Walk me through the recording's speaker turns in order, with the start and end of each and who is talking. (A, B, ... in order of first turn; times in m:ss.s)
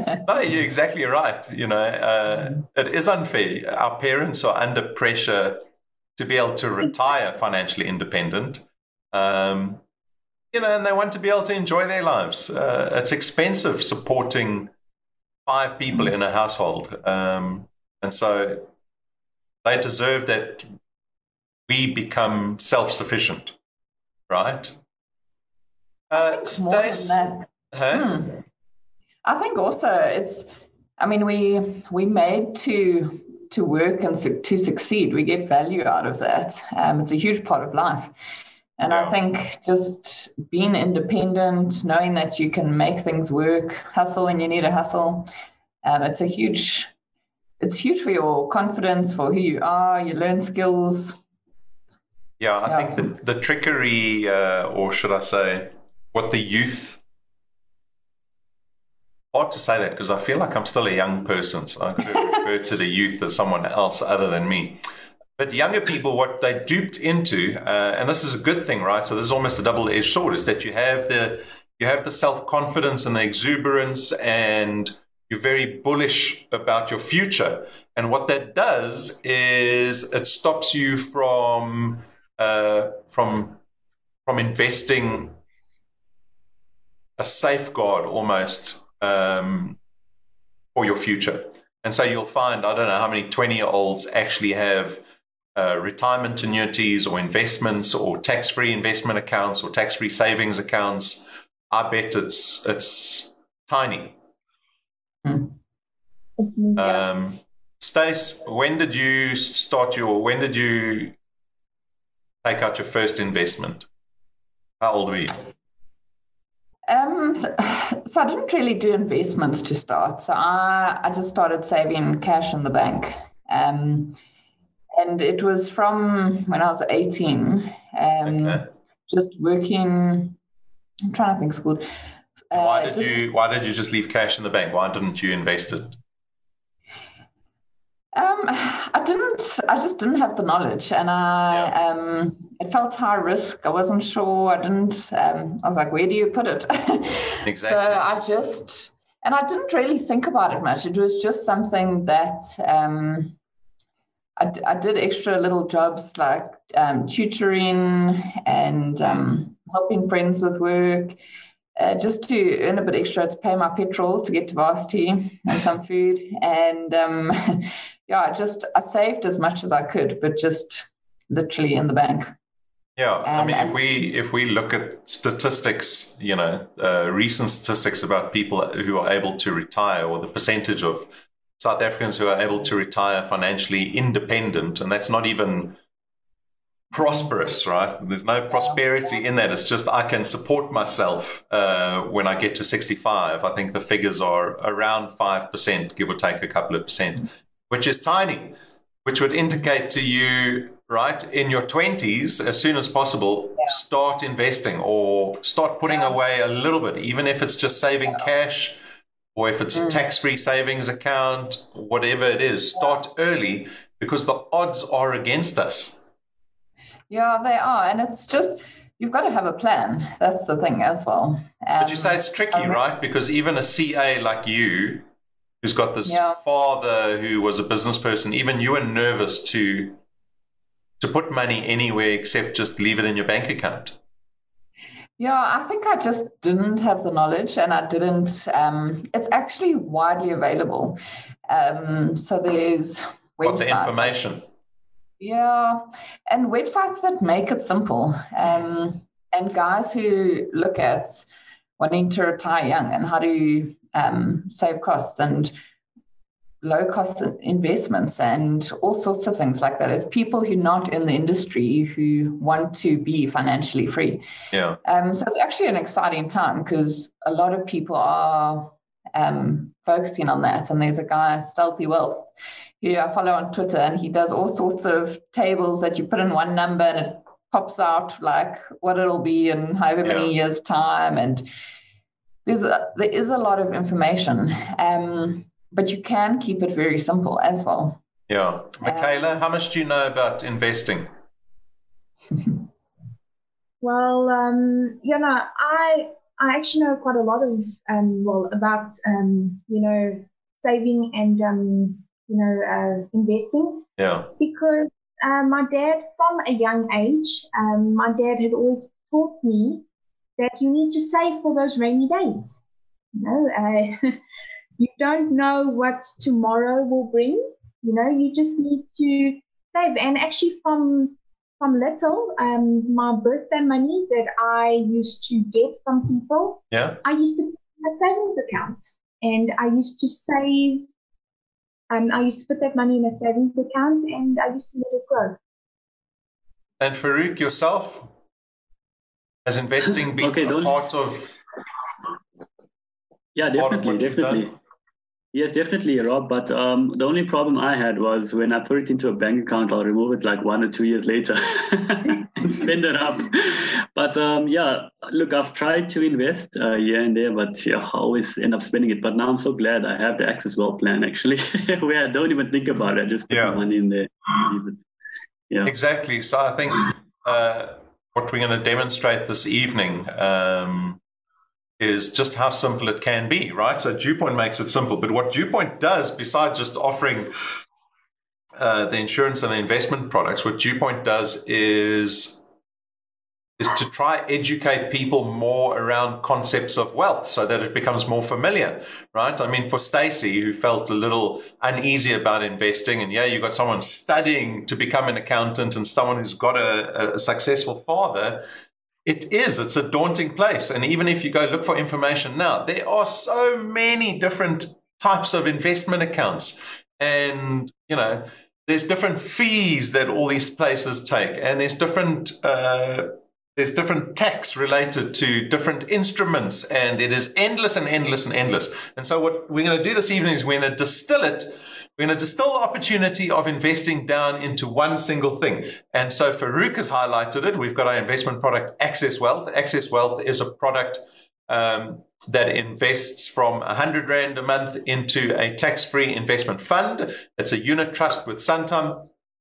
0:00.2-0:05.6 A
0:06.2-0:09.8 A
0:10.5-0:14.7 A
0:15.4-0:18.7 A
0:19.6-0:20.7 A
0:21.7-0:23.6 A
0:24.3-0:24.8 A
0:26.1-0:28.1 A
0:26.1-0:28.4 B
0:29.2-0:38.1 B
0:38.8-0:45.3 B
0:38.9-0:39.2 A
0:45.8-0:46.9 B
0:47.6-0:51.2 B
0:52.4-0:57.0 A
0:52.6-0:53.1 B
0:59.3-1:04.8 A
1:05.4-1:23.6 A
1:24.2-1:25.4 A
1:27.2-1:29.8 A
1:30.7-1:35.0 A
1:35.5-1:44.2 A
1:45.2-1:45.5 B
1:46.4-1:47.0 C
1:46.8-1:51.1 A
1:52.4-1:53.9 A
1:54.8-1:55.4 A
1:56.9-2:04.2 B
2:04.9-2:10.4 B
2:08.2-2:08.7 A
2:11.1-2:11.9 B
2:12.4-2:13.2 B
2:12.5-2:16.0 A
2:18.1-2:33.4 B
2:27.4-2:28.0 A
2:34.4-2:41.2 B
2:41.8-2:52.3 B
2:53.0-3:05.8 A
2:53.2-2:54.0 B
3:06.9-3:28.8 A
3:29.3-3:36.0 A
3:29.7-3:30.0 B
3:37.1-3:42.8 B
3:41.8-3:45.1 A
3:45.6-3:50.0 A
3:46.0-3:46.4 B
3:51.0-3:54.0 A
3:55.2-4:04.2 B
4:03.4-4:04.4 A
4:05.2-4:11.3 B
4:11.8-4:15.5 B
4:16.6-4:24.2 B
4:24.5-4:24.8 A
4:24.8-4:41.4 B
4:40.0-4:40.3 A
4:42.4-4:48.0 B
4:48.3-4:51.1 A
4:48.8-4:49.3 B
4:53.8-5:03.8 C
5:04.0-5:04.3 A
5:04.4-5:09.8 C
5:10.4-5:12.6 C
5:13.1-5:14.2 C
5:14.8-5:30.9 C
5:26.7-5:27.0 A
5:31.9-5:35.4 C
5:36.8-5:38.1 A
5:39.4-5:41.4 A
5:40.2-5:40.8 D
5:43.3-5:44.5 D
5:43.5-5:44.4 A
5:45.3-6:04.8 D
6:03.3-6:03.6 A
6:05.6-6:11.0 A
6:11.8-6:17.3 A
6:18.6-6:22.4 A
6:23.6-6:38.4 A
6:39.0-7:19.1 A